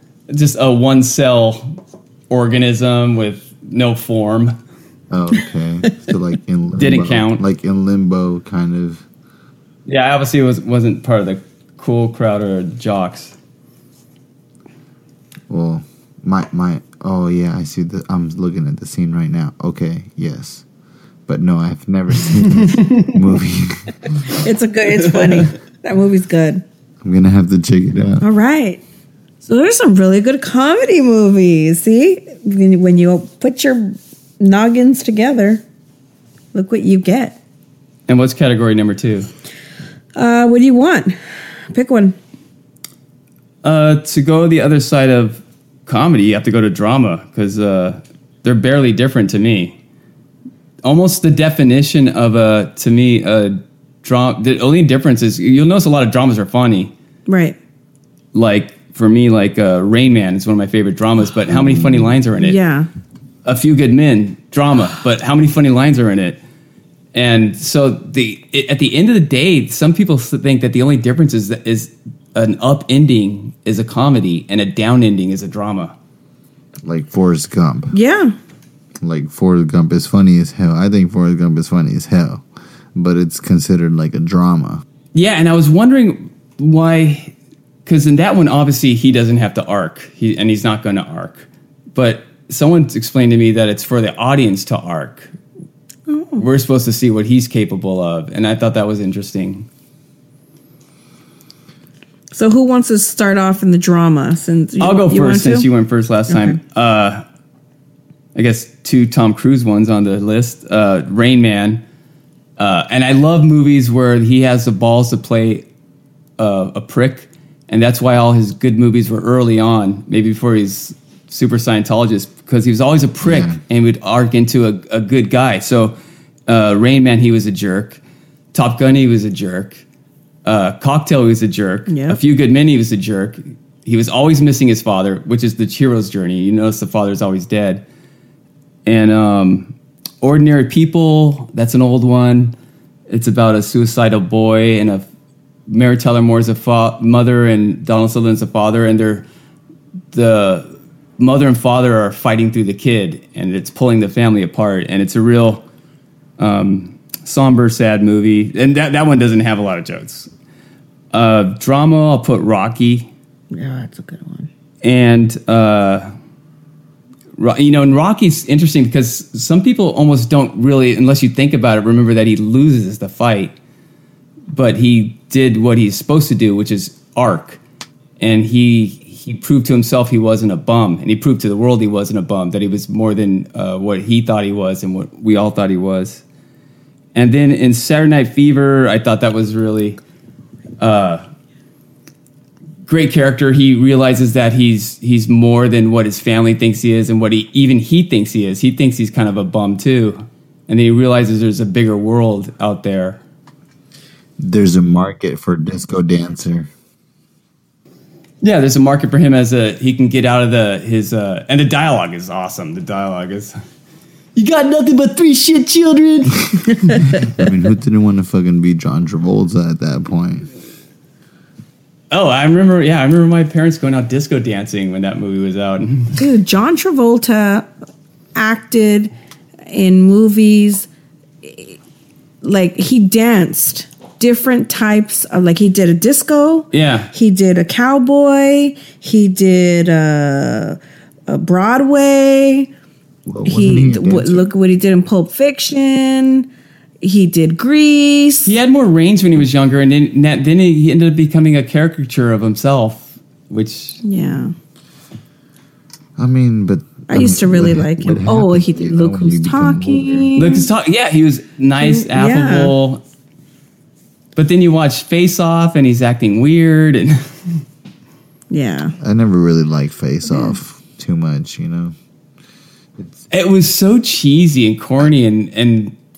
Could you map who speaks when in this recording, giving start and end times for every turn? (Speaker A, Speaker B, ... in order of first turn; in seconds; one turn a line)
Speaker A: 0.3-1.8
Speaker A: 2.3-4.5
Speaker B: 5.1-9.1
Speaker A: 6.8-7.4
Speaker A: 9.9-13.3
Speaker B: 15.5-20.6
Speaker B: 21.3-24.1
Speaker C: 24.3-26.6
Speaker A: 25.1-25.5
Speaker B: 27.0-28.3
Speaker C: 28.2-28.8
Speaker C: 29.4-35.6
Speaker C: 36.5-37.4
Speaker A: 38.1-39.3
Speaker C: 40.1-41.1
Speaker C: 41.7-42.2
Speaker A: 43.6-49.8
Speaker A: 50.8-56.9
Speaker C: 57.3-57.6
Speaker A: 58.3-62.6
Speaker C: 62.4-62.9
Speaker A: 63.5-66.4
Speaker A: 67.1-75.9
Speaker B: 76.8-78.0
Speaker C: 77.9-78.3
Speaker B: 79.0-82.4
Speaker B: 83.0-84.8
Speaker A: 85.1-87.3
Speaker A: 87.9-95.3
Speaker C: 96.1-96.5
Speaker A: 96.4-99.7
Speaker C: 102.3-105.7
Speaker A: 104.8-107.2
Speaker C: 106.3-106.6
Speaker A: 108.3-111.8
Speaker A: 112.6-115.6
Speaker A: 116.4-126.0
Speaker B: 123.2-123.6
Speaker A: 126.5-128.0
Speaker A: 128.5-129.8
Speaker A: 130.4-137.8
Speaker C: 131.9-132.2
Speaker A: 138.9-142.6
Speaker A: 143.1-145.1
Speaker A: 145.7-149.2
Speaker A: 150.1-155.6
Speaker A: 156.4-160.3
Speaker A: 161.1-163.1
Speaker C: 163.5-164.5
Speaker A: 164.8-166.1
Speaker A: 167.4-173.5
Speaker A: 174.5-177.6
Speaker A: 178.2-186.2
Speaker A: 187.2-190.0
Speaker A: 190.8-191.2
Speaker A: 192.9-203.2
Speaker B: 204.4-206.7
Speaker A: 208.4-213.6
Speaker A: 214.4-217.0
Speaker B: 216.9-220.5
Speaker A: 222.1-226.2
Speaker C: 226.2-227.7
Speaker C: 228.3-229.1
Speaker C: 229.7-230.9
Speaker C: 231.4-231.8
Speaker C: 232.4-242.7
Speaker A: 236.7-237.1
Speaker B: 243.3-244.5
Speaker C: 243.5-246.5
Speaker C: 247.0-248.6
Speaker A: 248.5-254.0
Speaker C: 254.0-254.5
Speaker B: 256.2-260.3
Speaker C: 257.1-260.7
Speaker A: 260.4-263.0
Speaker C: 261.8-262.8
Speaker A: 264.4-267.3
Speaker C: 268.5-268.9
Speaker B: 269.0-271.9
Speaker C: 270.3-270.6
Speaker B: 273.0-273.2
Speaker A: 273.3-275.9